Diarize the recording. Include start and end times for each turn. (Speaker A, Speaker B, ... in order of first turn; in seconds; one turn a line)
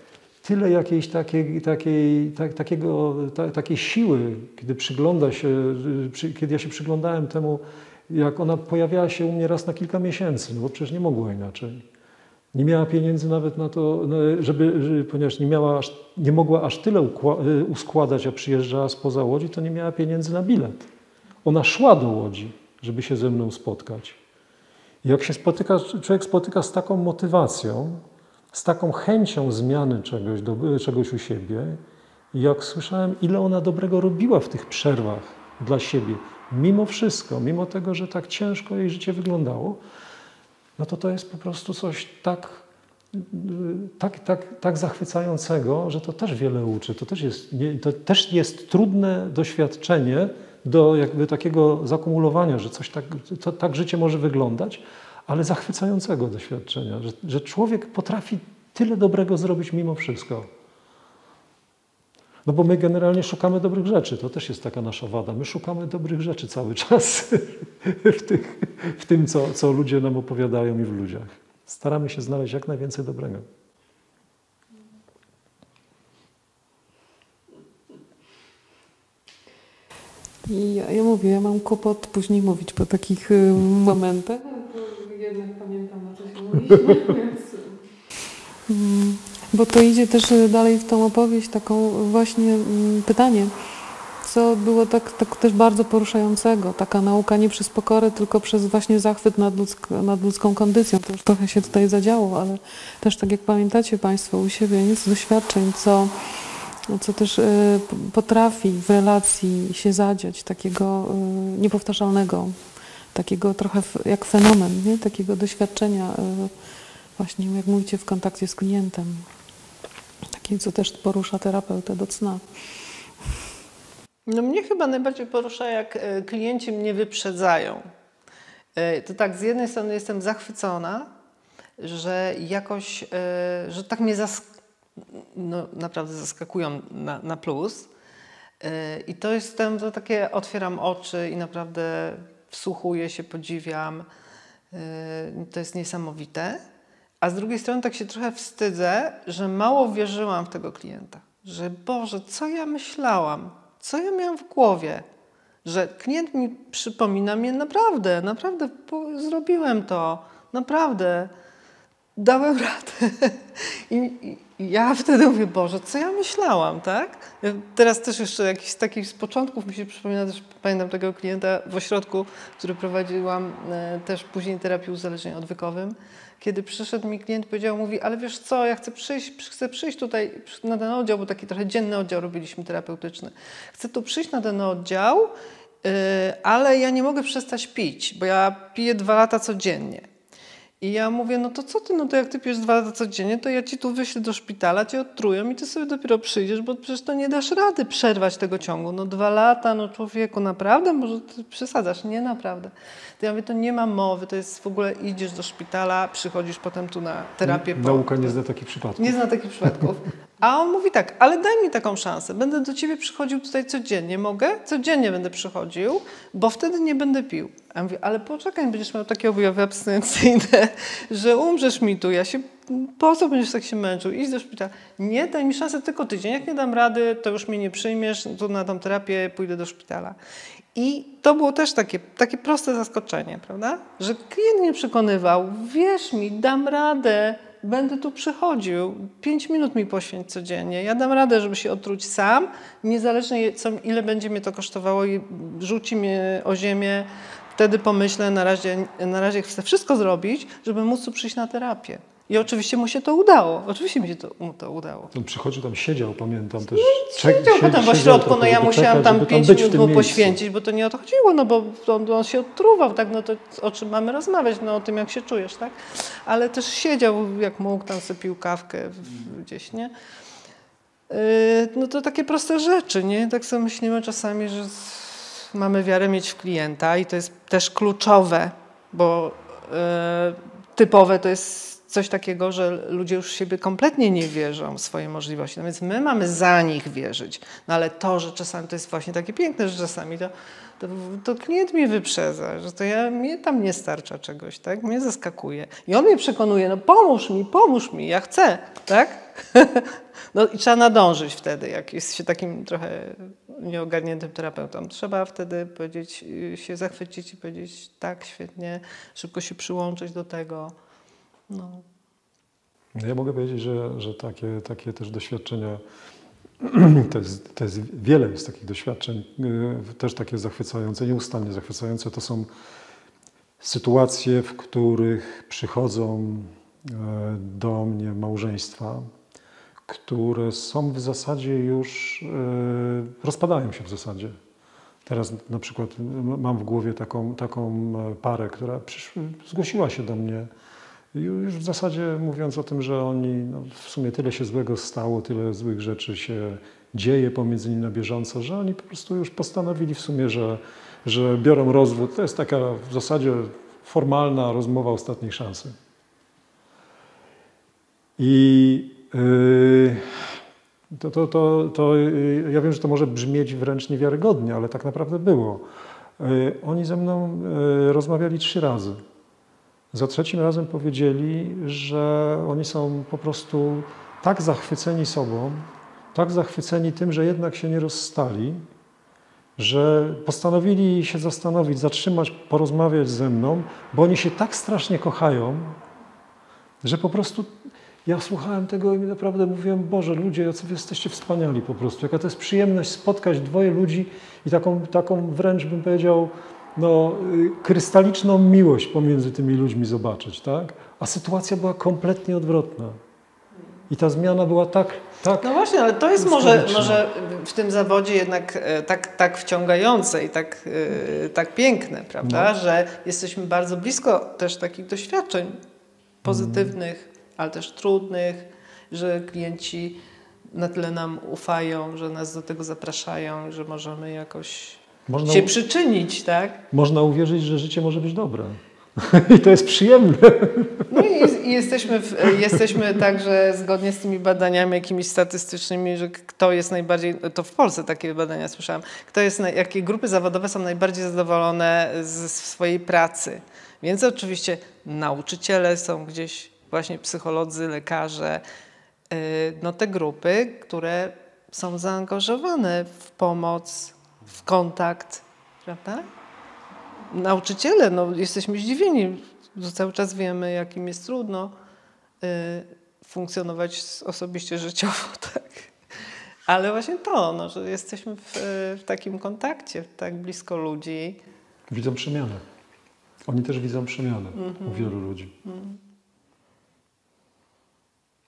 Speaker A: 0.4-11.8
Speaker A: 12.5-20.9
Speaker A: 21.4-24.2
Speaker A: 25.0-31.8
Speaker A: 32.3-39.8
Speaker A: 40.8-60.5
Speaker A: 62.4-73.5
Speaker B: 80.4-87.8
Speaker B: 88.7-93.5
Speaker B: 94.2-112.6
Speaker B: 113.1-116.5
Speaker B: 117.2-119.3
Speaker B: 120.3-122.4
Speaker C: 124.3-127.8
Speaker C: 128.8-131.1
Speaker C: 131.8-134.5
Speaker C: 135.0-137.9
Speaker C: 138.6-144.1
Speaker C: 144.7-146.6
Speaker C: 147.2-155.0
Speaker C: 155.6-161.3
Speaker C: 162.2-190.1
Speaker C: 190.8-208.3
Speaker A: 207.4-209.8
Speaker C: 209.0-230.2
Speaker C: 230.7-255.1
Speaker A: 255.1-260.4
Speaker C: 256.6-269.9
Speaker C: 271.1-310.7
Speaker C: 311.5-311.9
Speaker A: 312.9-315.8
Speaker A: 316.6-322.5
Speaker A: 323.6-329.1
Speaker A: 329.9-334.4
Speaker A: 335.1-340.5
Speaker A: 341.1-355.8
Speaker A: 358.2-360.4
Speaker A: 360.9-365.6
Speaker A: 366.2-369.0
Speaker A: 369.9-378.6
Speaker A: 379.6-385.8
Speaker A: 386.8-403.0
Speaker A: 403.9-405.6
Speaker C: 405.4-415.6
Speaker A: 406.2-407.0
Speaker A: 412.2-412.5
Speaker A: 416.2-416.7
Speaker C: 416.2-420.0
Speaker C: 420.5-426.6
Speaker A: 425.1-425.5
Speaker A: 426.7-431.3
Speaker C: 430.9-448.4
Speaker A: 432.2-432.8
Speaker C: 449.1-456.1
Speaker C: 457.1-461.5
Speaker C: 462.2-465.7
Speaker C: 466.5-471.2
Speaker A: 471.7-472.4
Speaker A: 473.2-475.3
Speaker C: 474.3-475.8